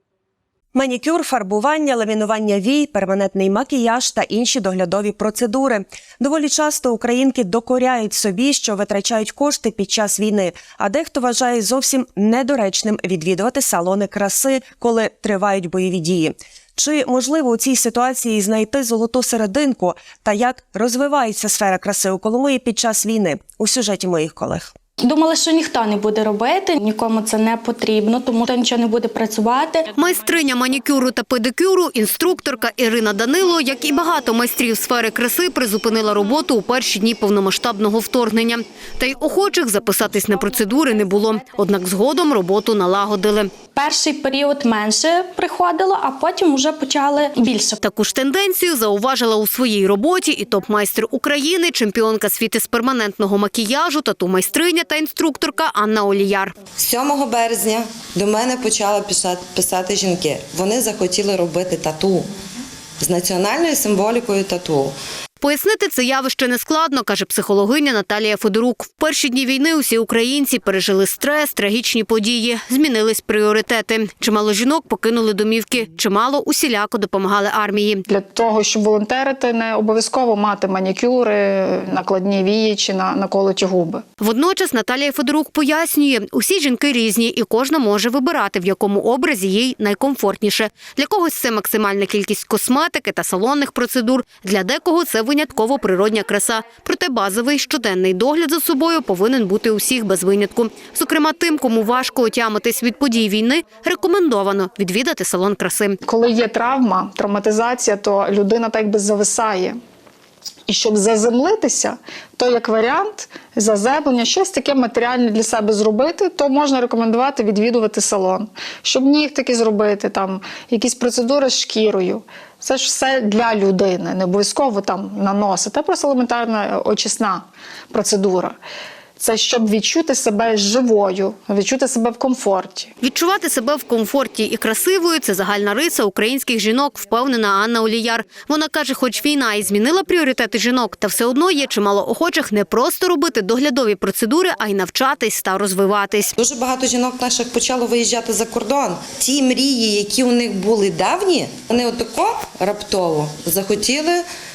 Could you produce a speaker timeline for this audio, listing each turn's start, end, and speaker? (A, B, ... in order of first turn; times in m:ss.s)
0:00.7-0:24.7 A
0:25.0-0:29.9 B
0:29.9-0:43.6 C
0:43.8-0:47.8 B
0:47.8-0:56.6 C
0:56.8-1:02.3 D
1:03.0-1:04.9 D
1:05.4-1:18.0 C
1:18.1-1:24.0 E
1:24.2-1:46.0 C
1:46.0-1:49.8 E
1:50.7-2:08.6 E
2:09.2-2:12.9 E
2:13.0-2:26.4 C
2:26.4-2:34.2 D